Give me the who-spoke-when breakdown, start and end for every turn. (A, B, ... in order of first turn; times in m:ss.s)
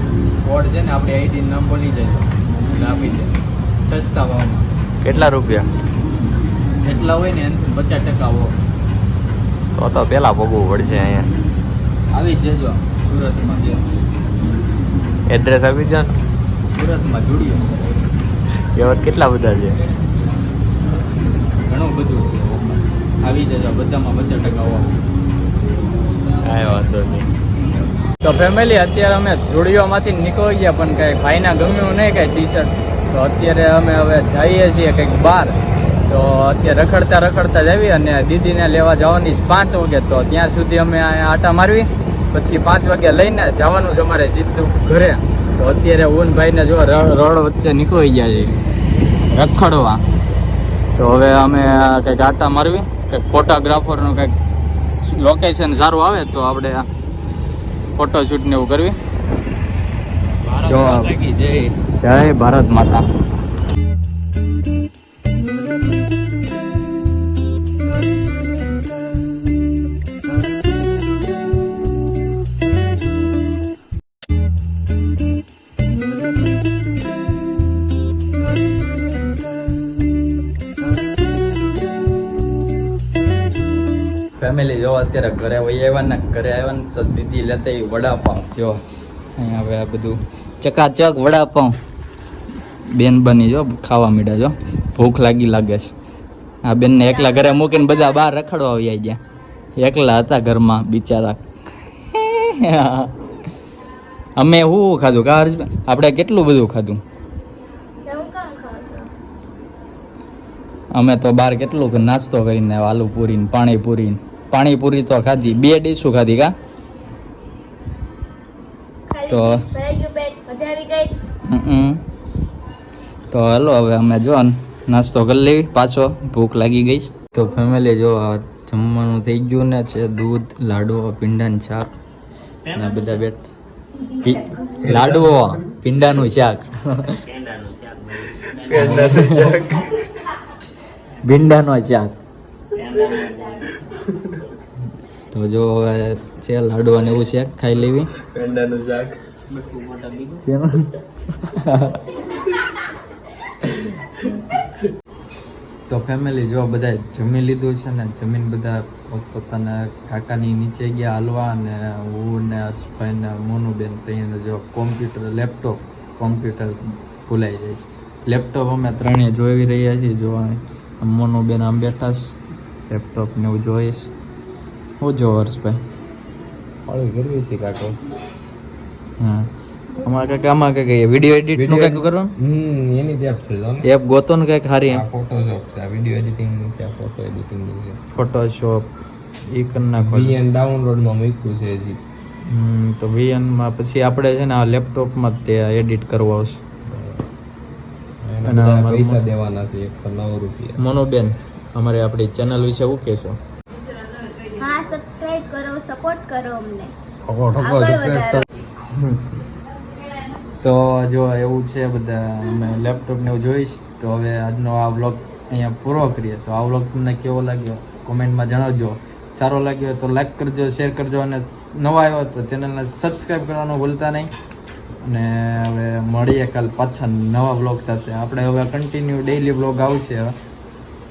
0:00.4-0:03.3 A
0:03.9-0:04.7 A
0:05.0-0:05.7 B
0:06.8-0:08.5 A
0:09.8-0:11.3 B
0:12.1-0:13.8 A
0:15.3-0:16.2 B
0:16.7-0:17.9 A
0:18.7-0:19.8 B
0:21.7-0:24.9 A
0:26.4-0:27.3 B
0:28.2-0:35.6 A
0:36.1-0:48.6 A
0:49.3-0:50.0 A
0:51.0-0:54.3 A
0:54.9-0:56.8 A
0:58.0-0:59.0 A
1:00.5-1:01.6 B
1:00.7-1:01.2 A
1:01.8-1:03.0 A
1:24.4-1:28.8 A
1:29.4-1:31.7 A
1:32.9-1:35.9 A
1:36.6-1:39.2 A
1:37.2-1:37.9 C
1:39.8-1:41.4 A
1:42.0-1:43.1 A
1:44.4-1:47.0 A
1:48.1-1:49.1 C
1:50.9-1:56.5 A
1:59.1-2:01.1 C
1:59.3-1:59.6 A
2:01.5-2:02.0 A
2:03.3-2:11.9 A
2:12.7-2:13.5 A
2:14.2-2:17.2 A
2:14.8-2:15.4 B
2:18.1-2:19.9 B
2:18.7-2:19.6 A
2:21.2-2:22.2 A
2:23.0-2:23.5 B
2:25.3-2:28.1 A
2:28.2-2:29.2 B
2:29.8-2:30.1 B
2:30.4-2:32.0 A
2:35.9-2:52.4 A
2:52.9-2:54.1 A
2:55.0-2:55.8 A
2:56.8-2:58.0 B
2:59.2-2:59.5 A
3:00.0-3:02.3 A
3:01.6-3:03.8 B
3:03.8-3:05.0 A
3:04.9-3:08.0 B
3:08.1-3:08.9 A
3:09.5-3:10.4 A
3:10.0-3:12.0 B
3:12.5-3:16.6 A
3:16.9-3:17.2 B
3:18.2-3:20.8 B
3:18.4-3:19.2 A
3:20.8-3:23.4 A
3:24.6-3:26.9 C
3:27.3-3:28.4 B
3:27.5-3:28.4 C
3:30.6-3:44.3 A
3:45.0-3:50.3 A